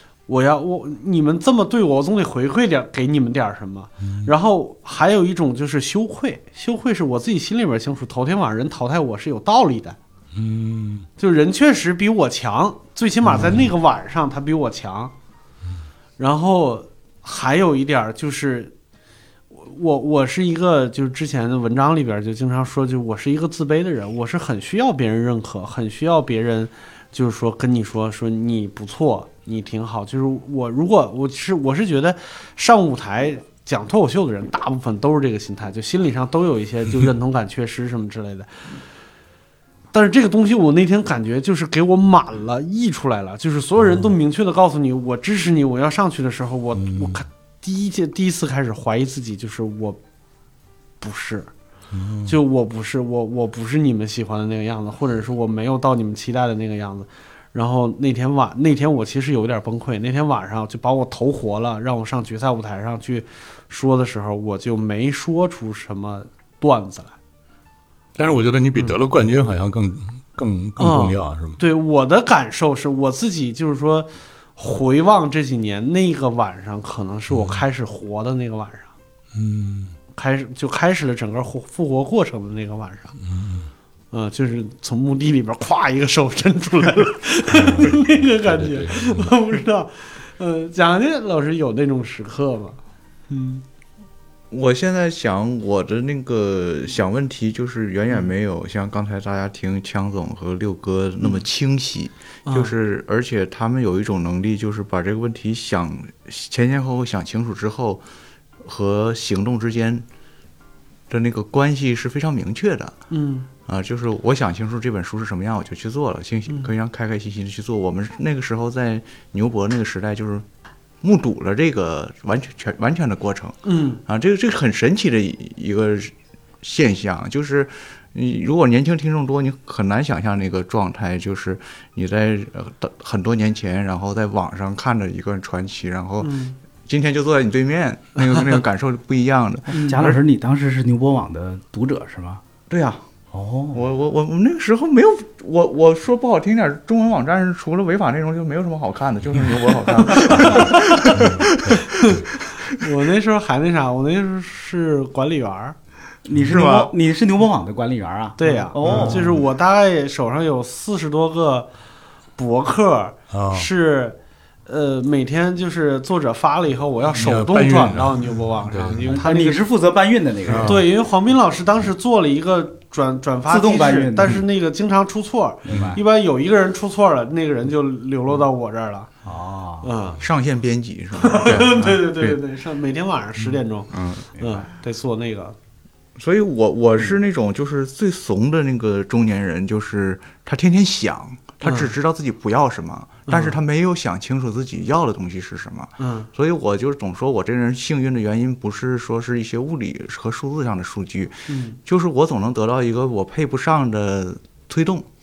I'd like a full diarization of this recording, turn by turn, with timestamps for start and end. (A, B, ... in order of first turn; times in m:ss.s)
0:00.3-0:10.0 A
0:04.0-0:04.3 B
0:10.4-0:11.1 B
0:11.2-0:15.1 A
0:13.3-0:13.7 B
0:16.2-0:18.7 A
0:19.5-0:38.5 A
0:39.9-0:50.0 A
0:46.8-0:47.2 B
0:51.0-0:51.5 A
0:51.9-0:52.4 B
0:52.3-1:07.2 A
1:08.2-1:11.6 B
1:10.8-1:18.9 A
1:17.3-1:17.6 B
1:19.3-1:19.9 B
1:20.2-1:23.2 A
1:23.2-1:23.7 B
1:24.1-1:32.8 A
1:27.5-1:29.3 B
1:34.5-1:48.0 C
1:42.5-1:42.7 A
1:48.6-1:50.1 C
1:51.1-1:53.0 C
1:53.1-1:53.5 A
1:53.7-2:00.4 C
2:01.0-2:16.3 C
2:03.6-2:04.0 A
2:16.2-2:16.6 A
2:16.9-2:20.2 C
2:19.7-2:22.4 D
2:22.7-2:23.0 C
2:23.3-2:23.8 D
2:23.7-2:32.2 C
2:31.1-2:31.5 B
2:32.8-2:35.8 A
2:36.2-2:39.4 D
2:36.5-2:36.9 C
2:38.4-2:41.7 A
2:38.8-2:39.3 B
2:42.4-2:49.6 A
2:43.3-2:43.7 B
2:47.1-2:49.2 B
2:49.0-2:50.8 D
2:50.5-2:50.8 B
2:50.5-2:59.1 A
2:53.5-2:54.4 D
2:55.7-2:56.0 D
2:55.7-2:56.0 B
2:59.2-2:59.9 D
2:59.8-3:00.2 A
3:00.2-3:02.4 C
3:01.2-3:05.6 A
3:03.9-3:04.3 C
3:06.2-3:25.1 C
3:11.6-3:11.9 A
3:13.3-3:13.6 A
3:16.0-3:16.3 A
3:21.5-3:21.8 A